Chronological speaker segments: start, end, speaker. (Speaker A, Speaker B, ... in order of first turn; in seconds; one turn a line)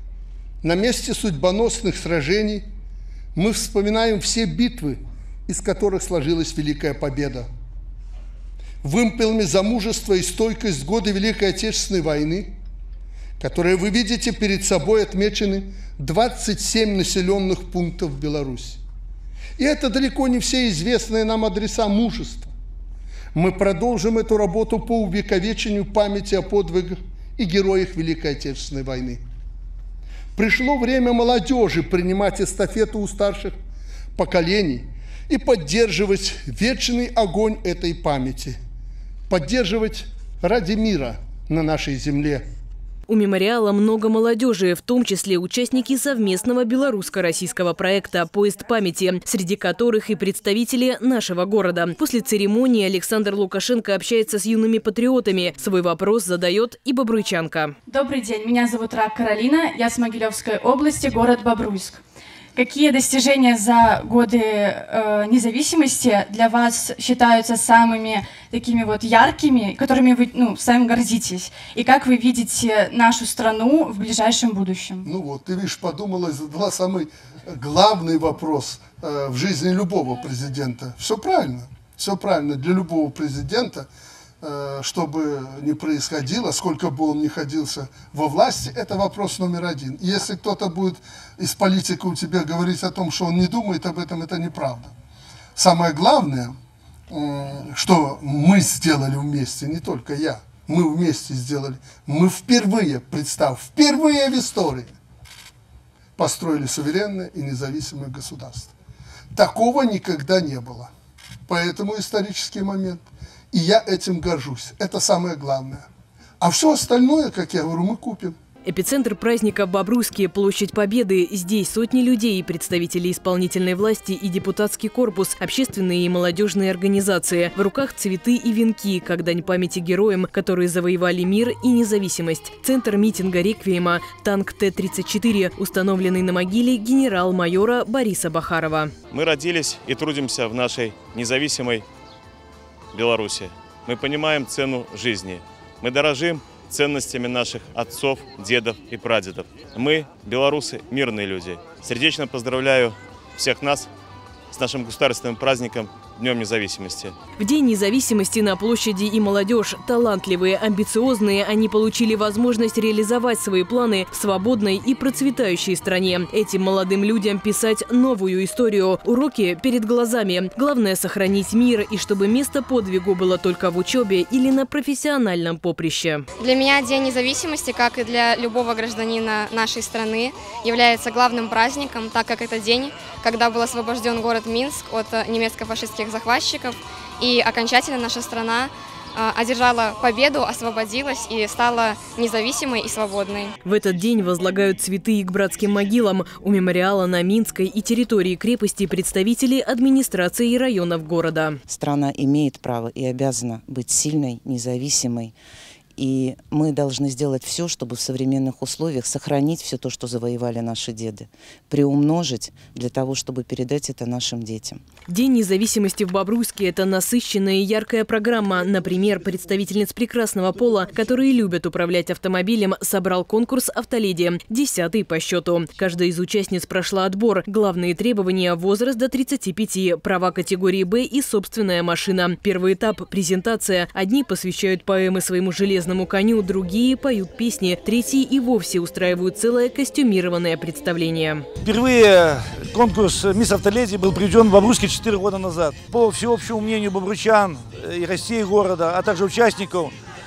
Speaker A: 0.6-2.6
Speaker A: 3.4-7.5
Speaker A: 8.8-12.5
Speaker A: 13.4-18.8
Speaker A: 19.6-22.5
Speaker A: 23.3-29.2
Speaker A: 30.4-33.5
Speaker A: 34.2-38.6
Speaker A: 39.3-42.5
Speaker B: 43.1-57.7
Speaker C: 57.9-62.0
Speaker C: 62.5-75.1
Speaker A: 75.0-83.9
Speaker A: 84.4-94.9
Speaker A: 95.6-96.6
Speaker A: 97.1-105.0
Speaker A: 106.2-108.7
Speaker A: 109.3-110.9
Speaker A: 111.5-115.9
Speaker A: 116.4-118.4
Speaker B: 118.7-138.9
Speaker D: 139.1-141.8
Speaker D: 142.9-153.9
Speaker D: 154.5-157.2
Speaker B: 157.4-176.2
Speaker E: 176.4-193.5
Speaker B: 193.7-201.6
Speaker F: 201.7-205.3
Speaker F: 206.0-214.8
Speaker B: 215.1-241.4
Speaker G: 241.6-249.9